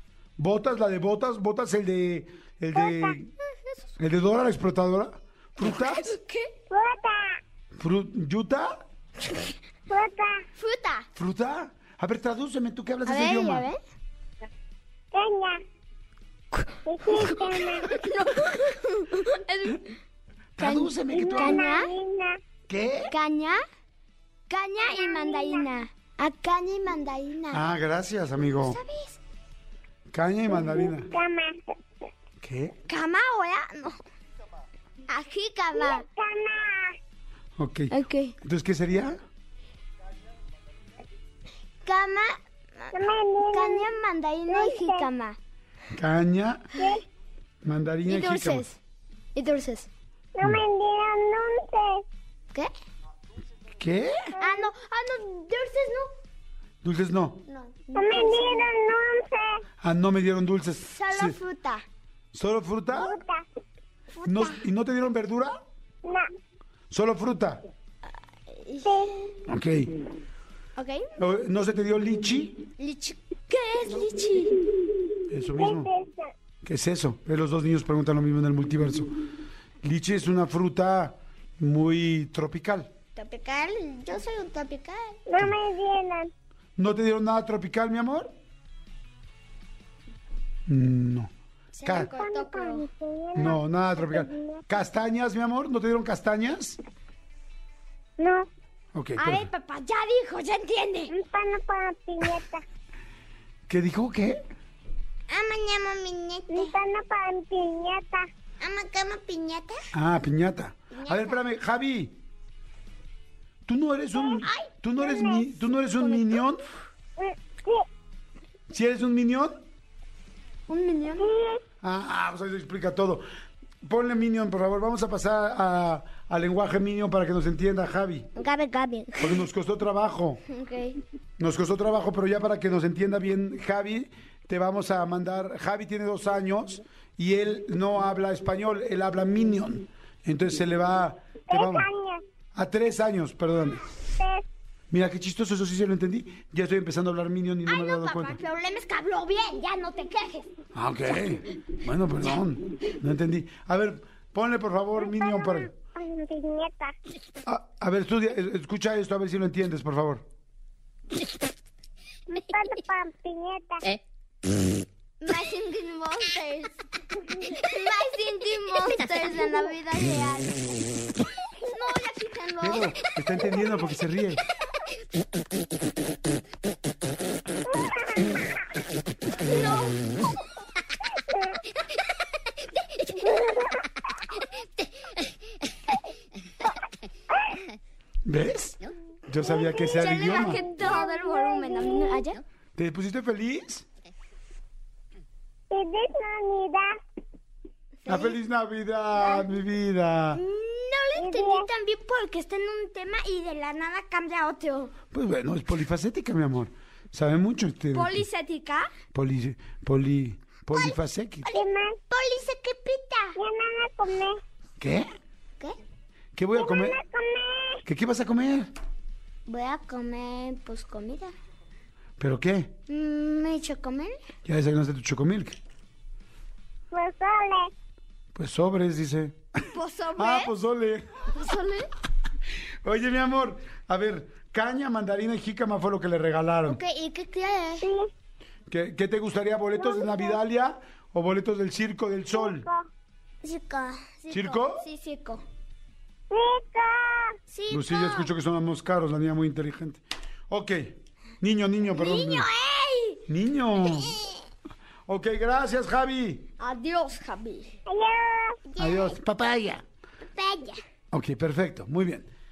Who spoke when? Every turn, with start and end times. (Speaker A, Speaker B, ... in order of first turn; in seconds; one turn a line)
Speaker A: 0.4-3.3
Speaker B: 2.7-3.1
Speaker A: 4.0-6.1
Speaker C: 5.6-6.5
Speaker B: 6.7-7.4
Speaker A: 7.8-8.8
Speaker B: 9.9-10.4
Speaker C: 10.6-11.1
Speaker A: 11.1-13.7
Speaker C: 13.1-13.8
Speaker B: 15.1-15.6
Speaker C: 16.5-19.9
Speaker B: 16.9-17.9
Speaker A: 20.6-21.6
Speaker C: 20.6-21.9
Speaker B: 21.1-22.4
Speaker A: 22.7-23.1
Speaker C: 23.1-23.6
Speaker C: 24.5-27.6
Speaker B: 24.8-25.6
Speaker A: 27.5-28.8
Speaker C: 28.6-29.2
Speaker A: 30.1-31.1
Speaker B: 30.5-31.7
Speaker A: 32.4-32.8
Speaker C: 32.9-34.0
Speaker C: 35.1-36.0
Speaker B: 35.7-37.0
Speaker A: 37.6-39.2
Speaker C: 37.9-38.4
Speaker C: 41.8-42.9
Speaker B: 42.9-43.8
Speaker C: 43.5-45.4
Speaker B: 44.5-45.1
Speaker A: 45.9-46.7
Speaker B: 46.8-47.0
Speaker A: 47.6-48.6
Speaker C: 48.1-48.8
Speaker C: 49.4-49.9
Speaker B: 50.4-52.0
Speaker A: 53.7-54.4
Speaker C: 54.4-56.1
Speaker A: 56.8-57.4
Speaker C: 57.5-58.6
Speaker B: 57.9-59.6
Speaker A: 59.8-61.4
Speaker C: 60.8-61.9
Speaker A: 62.3-63.2
Speaker B: 62.9-63.4
Speaker C: 64.2-64.6
Speaker A: 64.2-65.6
Speaker A: 66.9-67.6
Speaker C: 68.5-69.2
Speaker B: 68.8-69.1
Speaker A: 69.5-69.9
Speaker C: 70.8-71.1
Speaker A: 71.2-72.6
Speaker C: 72.8-74.6
Speaker A: 75.3-75.9
Speaker B: 75.5-76.3
Speaker A: 76.6-79.1
Speaker A: 79.8-82.9
Speaker C: 83.2-85.2
Speaker B: 85.3-86.3
Speaker A: 86.8-88.3
Speaker A: 90.7-91.3
Speaker C: 91.7-92.9
Speaker A: 91.8-92.1
Speaker B: 92.1-94.6
Speaker A: 93.4-96.8
Speaker B: 98.2-98.5
Speaker A: 98.9-99.5
Speaker C: 99.2-101.1
Speaker B: 101.1-102.6
Speaker A: 103.7-104.4
Speaker C: 105.3-106.7
Speaker B: 106.5-108.3
Speaker C: 108.6-109.9
Speaker A: 109.9-112.2
Speaker C: 110.9-111.4
Speaker A: 113.7-116.6
Speaker C: 114.2-114.7
Speaker B: 115.0-115.4
Speaker C: 115.9-116.4
Speaker B: 117.2-117.8
Speaker A: 118.7-119.6
Speaker C: 120.7-121.2
Speaker B: 121.2-121.6
Speaker A: 121.8-123.2
Speaker A: 123.8-128.3
Speaker C: 128.4-129.4
Speaker A: 129.2-130.4
Speaker C: 130.5-131.0
Speaker A: 131.4-141.8
Speaker B: 141.5-142.2
Speaker A: 142.5-143.8
Speaker B: 144.2-144.4
Speaker A: 144.9-148.4
Speaker C: 147.7-150.5
Speaker A: 150.7-155.7
Speaker B: 155.0-156.9
Speaker A: 157.4-160.2
Speaker B: 162.3-163.8
Speaker C: 165.2-166.8
Speaker C: 167.5-170.7
Speaker C: 171.7-173.0
Speaker A: 172.6-174.4
Speaker B: 177.7-178.3
Speaker C: 179.4-180.3
Speaker B: 183.2-183.7
Speaker A: 188.2-190.6
Speaker B: 189.4-192.2
Speaker C: 189.9-192.4
Speaker A: 192.7-193.9
Speaker B: 195.7-197.0
Speaker C: 198.0-198.4
Speaker A: 198.1-200.4
Speaker C: 200.3-204.9
Speaker B: 201.2-201.7
Speaker A: 205.1-208.2
Speaker C: 207.9-208.9
Speaker A: 209.1-211.5
Speaker C: 211.4-213.4
Speaker B: 211.5-212.0
Speaker B: 213.4-214.4
Speaker A: 214.8-215.1
Speaker A: 216.3-217.0
Speaker B: 216.6-217.8
Speaker A: 217.8-218.7
Speaker C: 219.5-221.3
Speaker A: 222.2-222.7
Speaker C: 222.9-224.2
Speaker A: 224.4-225.6
Speaker B: 226.9-227.7
Speaker A: 228.3-231.3
Speaker C: 229.7-230.5
Speaker C: 231.3-231.9
Speaker A: 232.8-236.8
Speaker C: 236.7-237.9
Speaker B: 237.8-238.1
Speaker A: 238.7-242.7
Speaker B: 239.7-240.4
Speaker B: 242.3-242.9
Speaker C: 243.4-245.4
Speaker A: 244.3-244.9
Speaker B: 246.3-247.3
Speaker C: 247.5-248.3
Speaker A: 247.7-252.5
Speaker C: 251.9-253.2
Speaker A: 253.3-254.1
Speaker C: 253.8-254.4
Speaker A: 255.1-256.5
Speaker C: 256.6-257.8
Speaker B: 257.9-258.6
Speaker C: 258.8-259.2
Speaker A: 258.8-259.9
Speaker C: 260.4-260.8
Speaker A: 261.1-262.3